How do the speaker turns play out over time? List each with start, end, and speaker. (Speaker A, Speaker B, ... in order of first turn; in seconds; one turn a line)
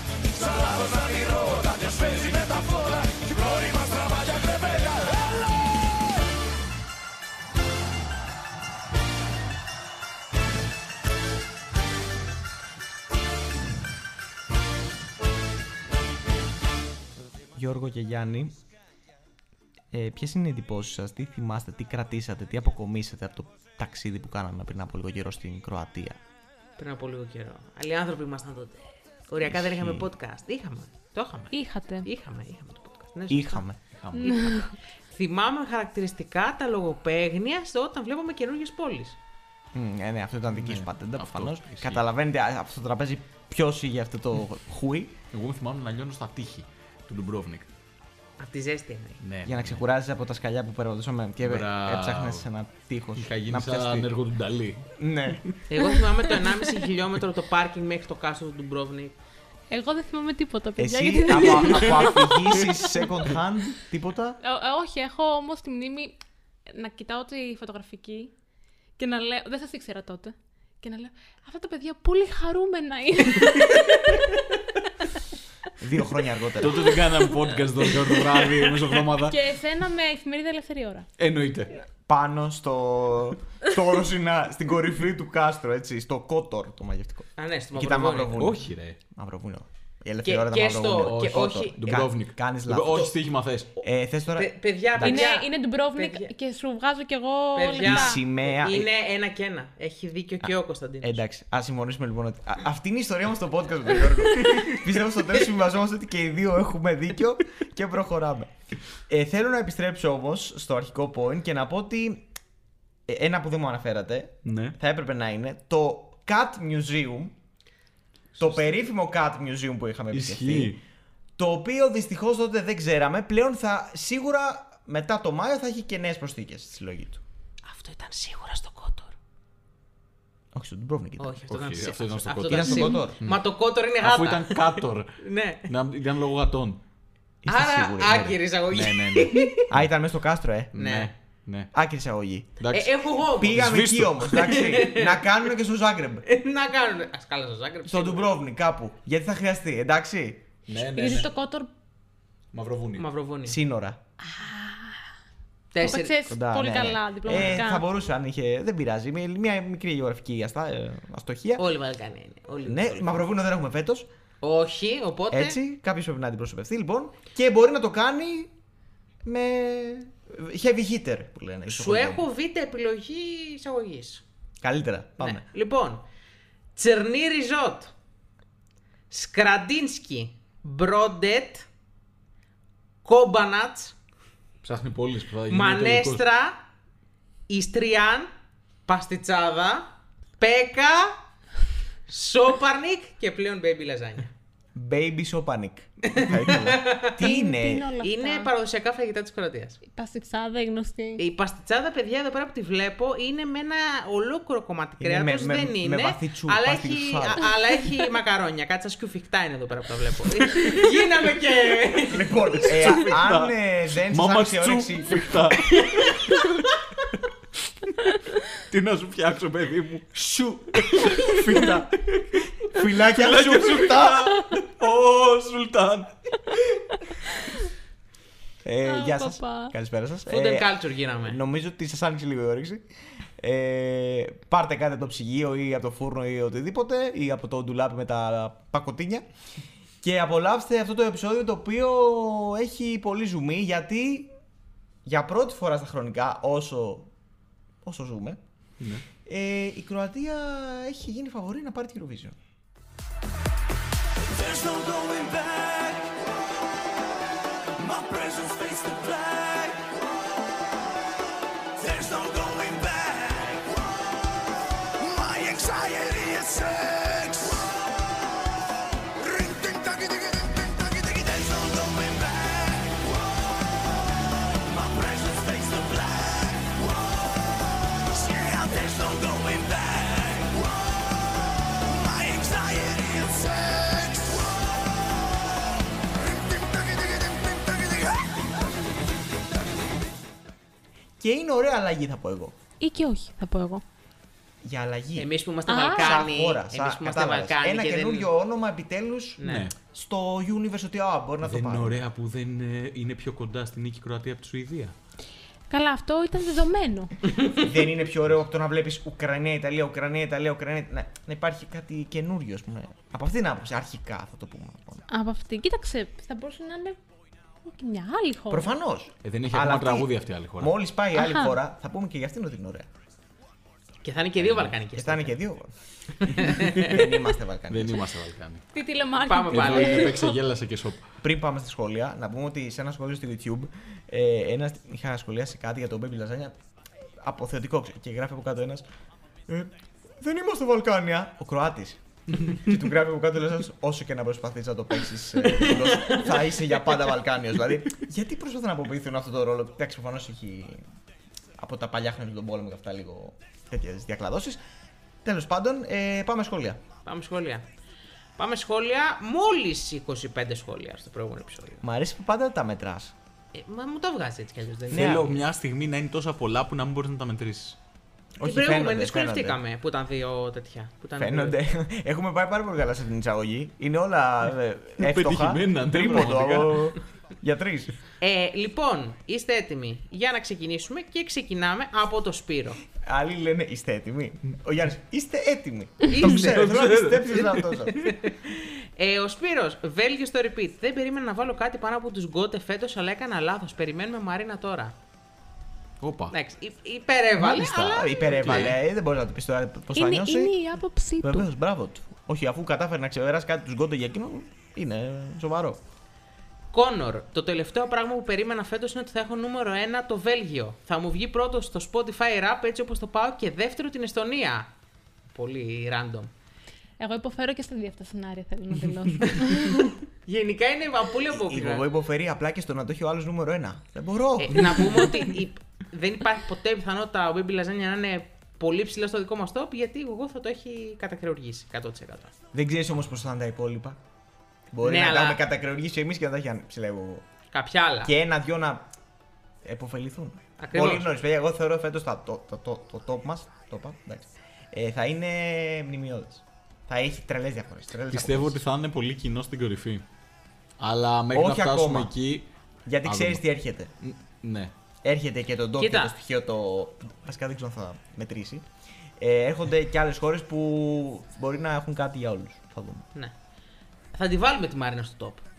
Speaker A: 17.5-18.6
Speaker A: 19.9-26.2
Speaker B: 26.8-33.6
Speaker A: 29.4-30.1
Speaker C: 31.5-32.1
Speaker A: 33.3-33.8
Speaker D: 34.0-34.5
Speaker C: 34.1-34.7
Speaker B: 34.2-39.2
Speaker A: 39.7-45.1
Speaker D: 40.5-42.0
Speaker D: 45.3-47.7
Speaker B: 48.4-49.2
Speaker D: 49.2-49.8
Speaker A: 49.4-54.1
Speaker D: 51.4-52.5
Speaker D: 53.1-54.9
Speaker A: 55.0-55.4
Speaker B: 55.7-59.1
Speaker C: 56.4-56.7
Speaker C: 59.7-62.7
Speaker A: 60.8-64.4
Speaker C: 64.4-66.2
Speaker C: 66.7-68.3
Speaker C: 69.0-74.4
Speaker A: 75.8-76.9
Speaker D: 76.6-79.4
Speaker C: 79.2-81.1
Speaker D: 81.2-81.7
Speaker A: 82.1-93.1
Speaker B: 87.4-88.4
Speaker D: 88.3-89.0
Speaker B: 90.2-91.8
Speaker D: 91.0-93.7
Speaker A: 93.8-95.3
Speaker B: 94.3-96.3
Speaker C: 95.0-98.2
Speaker B: 97.5-101.2
Speaker A: 97.8-98.9
Speaker A: 101.0-112.2
Speaker D: 104.4-104.8
Speaker A: 113.1-117.3
Speaker D: 114.4-114.8
Speaker B: 118.3-118.8
Speaker A: 118.4-120.8
Speaker D: 120.1-120.8
Speaker A: 121.4-127.2
Speaker B: 127.6-129.2
Speaker A: 130.5-131.4
Speaker B: 131.2-135.7
Speaker D: 131.5-133.4
Speaker A: 132.5-133.2
Speaker D: 134.0-136.8
Speaker A: 137.4-138.3
Speaker B: 137.4-139.7
Speaker D: 138.7-139.8
Speaker A: 139.7-140.9
Speaker D: 140.7-141.7
Speaker B: 140.8-141.1
Speaker A: 141.7-142.6
Speaker D: 142.6-144.6
Speaker B: 142.7-143.7
Speaker A: 143.3-146.2
Speaker B: 144.3-145.2
Speaker B: 146.2-148.3
Speaker A: 147.8-150.4
Speaker D: 150.7-151.3
Speaker C: 150.9-151.7
Speaker D: 152.5-153.0
Speaker B: 153.0-153.6
Speaker A: 153.4-154.0
Speaker C: 154.2-155.0
Speaker B: 155.7-156.2
Speaker C: 155.8-157.8
Speaker A: 156.2-161.6
Speaker B: 157.3-157.6
Speaker B: 161.6-163.2
Speaker A: 162.6-164.1
Speaker B: 164.4-165.6
Speaker A: 165.3-168.5
Speaker A: 169.2-172.3
Speaker B: 171.7-174.2
Speaker A: 174.6-175.4
Speaker B: 175.2-176.0
Speaker B: 176.8-177.9
Speaker B: 179.1-181.7
Speaker B: 183.0-183.9
Speaker D: 184.6-186.2
Speaker B: 185.5-186.6
Speaker B: 187.5-188.3
Speaker B: 188.9-191.2
Speaker B: 192.1-194.3
Speaker A: 194.7-197.9
Speaker B: 196.1-197.1
Speaker C: 197.2-198.5
Speaker B: 198.0-199.8
Speaker C: 199.9-201.2
Speaker B: 201.2-212.7
Speaker A: 205.0-207.5
Speaker A: 212.1-215.5
Speaker D: 212.6-216.4
Speaker D: 218.6-222.3
Speaker A: 221.1-221.9
Speaker A: 222.6-224.5
Speaker D: 223.0-226.1
Speaker A: 228.6-232.8
Speaker C: 228.8-229.7
Speaker B: 230.3-231.4
Speaker A: 233.4-239.2
Speaker A: 240.0-244.3
Speaker A: 245.0-247.1
Speaker A: 247.8-248.4
Speaker A: 249.2-252.4
Speaker D: 254.8-256.0
Speaker E: 269.8-270.3
Speaker E: 278.4-279.8
Speaker E: 282.3-284.0
Speaker E: 286.6-287.6
Speaker A: 291.2-292.6
Speaker C: 292.8-293.8
Speaker A: 294.6-295.3
Speaker B: 295.1-298.3
Speaker C: 295.7-296.2
Speaker A: 295.9-302.0
Speaker B: 299.4-299.7
Speaker D: 299.4-299.7
Speaker D: 301.4-304.9
Speaker C: 305.7-307.1
Speaker A: 307.5-315.1
Speaker C: 315.1-317.0
Speaker C: 317.6-318.7
Speaker A: 318.5-322.9
Speaker D: 319.2-320.8
Speaker C: 321.2-321.5
Speaker B: 324.0-325.4
Speaker A: 324.9-325.7
Speaker B: 326.2-326.9
Speaker A: 326.4-328.1
Speaker D: 327.7-328.6
Speaker C: 328.7-330.3
Speaker B: 329.2-330.3
Speaker D: 329.5-331.0
Speaker A: 331.2-336.6
Speaker A: 337.2-338.9
Speaker A: 339.5-350.8
Speaker B: 345.6-346.2
Speaker A: 351.6-354.6
Speaker A: 355.2-356.8
Speaker B: 357.0-357.6
Speaker B: 358.4-361.8
Speaker A: 361.8-363.1
Speaker B: 363.5-365.3
Speaker A: 364.9-365.3
Speaker D: 364.9-367.8
Speaker A: 368.4-369.6
Speaker B: 368.4-371.6
Speaker A: 371.2-377.9
Speaker D: 375.0-376.9
Speaker B: 378.2-382.8
Speaker A: 383.0-388.1
Speaker B: 386.1-386.6
Speaker D: 386.2-387.6
Speaker B: 387.8-394.9
Speaker D: 396.0-396.3
Speaker B: 396.3-398.7
Speaker A: 397.4-400.6
Speaker D: 398.4-398.8
Speaker C: 399.9-401.5
Speaker A: 401.2-405.8
Speaker B: 406.7-414.7
Speaker B: 415.3-416.3
Speaker C: 417.0-420.0
Speaker B: 420.2-421.9
Speaker A: 421.3-425.1
Speaker B: 424.4-432.3
Speaker A: 432.5-434.0
Speaker A: 434.7-437.2
Speaker B: 434.8-435.4
Speaker B: 437.5-438.1
Speaker A: 438.0-438.9
Speaker A: 439.6-448.6
Speaker B: 440.6-441.1
Speaker D: 448.1-450.0
Speaker D: 450.8-452.5
Speaker A: 451.3-452.1
Speaker A: 452.9-453.9
Speaker D: 453.0-453.4
Speaker D: 454.0-454.7
Speaker A: 455.0-458.6
Speaker B: 455.8-456.1
Speaker A: 459.2-463.0
Speaker B: 464.1-465.4